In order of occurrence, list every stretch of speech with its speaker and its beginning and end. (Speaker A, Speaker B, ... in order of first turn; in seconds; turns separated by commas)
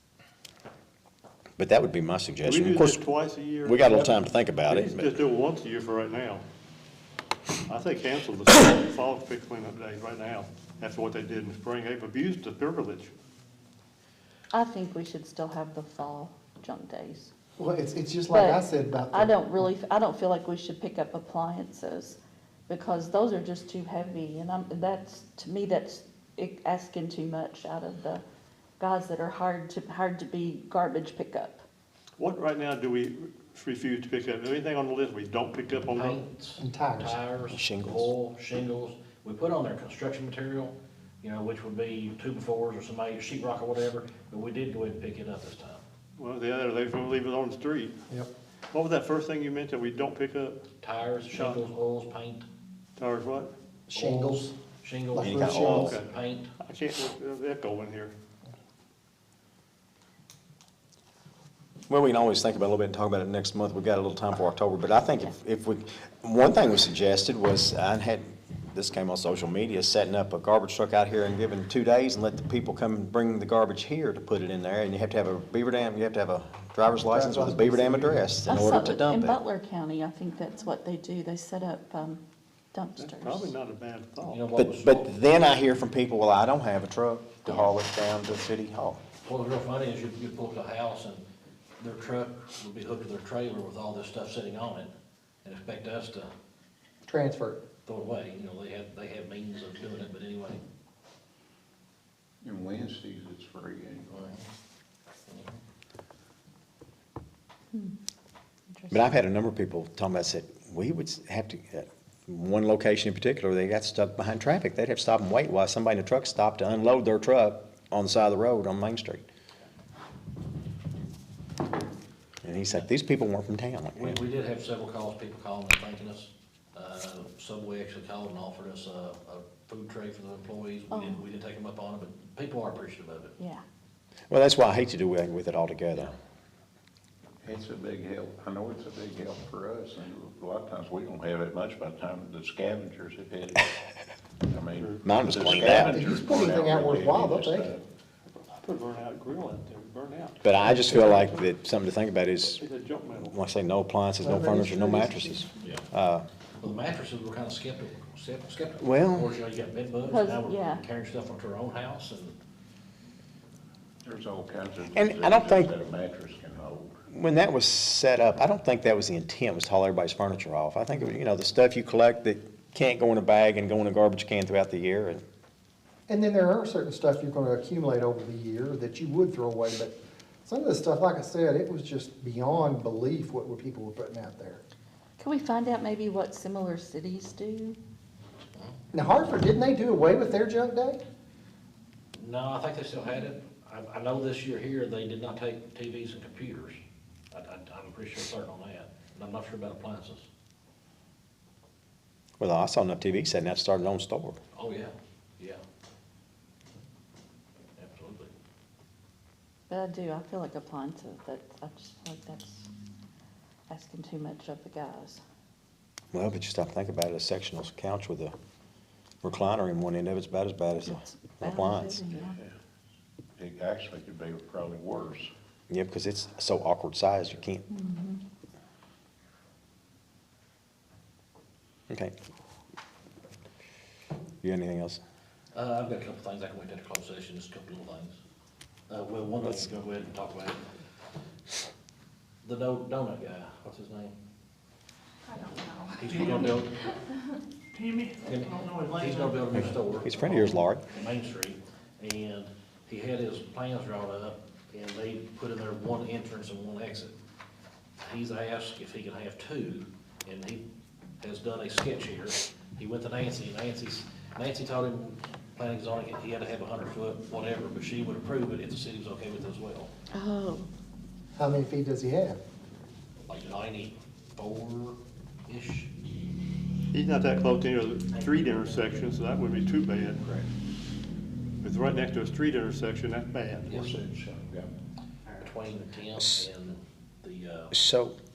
Speaker A: 1.6-3.0, Speaker B: 2.4-6.4, Speaker A: 3.6-5.2, Speaker B: 7.7-13.1, Speaker C: 14.5-17.3, Speaker D: 17.6-19.6, Speaker C: 18.3-28.2, Speaker C: 28.8-31.6, Speaker B: 32.2-36.1, Speaker E: 35.9-45.8, Speaker D: 36.6-37.2, Speaker A: 37.5-38.1, Speaker B: 46.1-47.9, Speaker B: 48.7-50.6, Speaker E: 50.8-52.5, Speaker B: 51.3-51.6, Speaker B: 53.0-53.5, Speaker D: 53.9-54.5, Speaker E: 53.9-56.5, Speaker D: 55.1-55.9, Speaker A: 55.2-56.0, Speaker B: 55.7-56.0, Speaker B: 56.6-58.1, Speaker A: 61.9-79.4, Speaker D: 77.0-78.4, Speaker C: 78.4-83.5, Speaker B: 83.0-84.4, Speaker E: 84.2-85.1, Speaker A: 84.5-89.0, Speaker E: 89.2-91.2, Speaker E: 91.8-94.9, Speaker E: 95.4-96.3, Speaker D: 97.0-97.6, Speaker E: 97.8-100.6, Speaker F: 102.4-104.4, Speaker E: 104.1-104.4, Speaker E: 105.3-105.6, Speaker C: 108.7-109.1, Speaker A: 108.9-119.2, Speaker A: 122.4-124.2, Speaker E: 123.9-133.3, Speaker C: 130.9-131.2, Speaker C: 133.4-133.6, Speaker A: 134.3-136.1, Speaker F: 137.4-143.7, Speaker F: 144.4-147.8, Speaker B: 144.7-145.0, Speaker A: 145.0-146.0, Speaker D: 145.8-147.7, Speaker B: 148.3-151.5, Speaker A: 150.4-152.6, Speaker B: 152.4-153.3, Speaker A: 153.2-156.2, Speaker D: 154.2-155.5, Speaker E: 156.6-162.3, Speaker A: 158.8-159.3, Speaker C: 160.1-160.8, Speaker F: 164.0-167.0, Speaker A: 164.9-165.7, Speaker A: 167.1-175.2, Speaker D: 176.1-184.6, Speaker C: 185.2-187.8, Speaker D: 188.9-191.0, Speaker E: 192.1-196.8, Speaker E: 197.3-200.3, Speaker A: 202.4-204.4, Speaker E: 204.5-205.6, Speaker E: 207.8-208.3, Speaker C: 209.7-212.7, Speaker C: 213.7-215.2, Speaker A: 216.1-218.3, Speaker A: 219.2-222.0, Speaker C: 220.8-222.4, Speaker F: 223.4-225.3, Speaker A: 225.7-227.7, Speaker C: 227.7-228.2, Speaker A: 234.4-235.0, Speaker E: 235.5-238.2, Speaker E: 238.9-240.6, Speaker A: 239.4-239.7, Speaker E: 242.4-244.1, Speaker E: 245.9-246.7, Speaker E: 248.2-257.1, Speaker A: 249.6-250.8, Speaker E: 258.0-260.6, Speaker E: 261.2-269.9, Speaker C: 270.1-270.7, Speaker D: 271.4-272.4, Speaker E: 273.3-275.9, Speaker B: 276.9-280.2, Speaker E: 278.1-279.1, Speaker B: 281.6-283.7, Speaker E: 283.6-284.0, Speaker F: 283.6-284.7, Speaker E: 285.4-287.7, Speaker A: 286.2-286.4, Speaker A: 287.7-288.1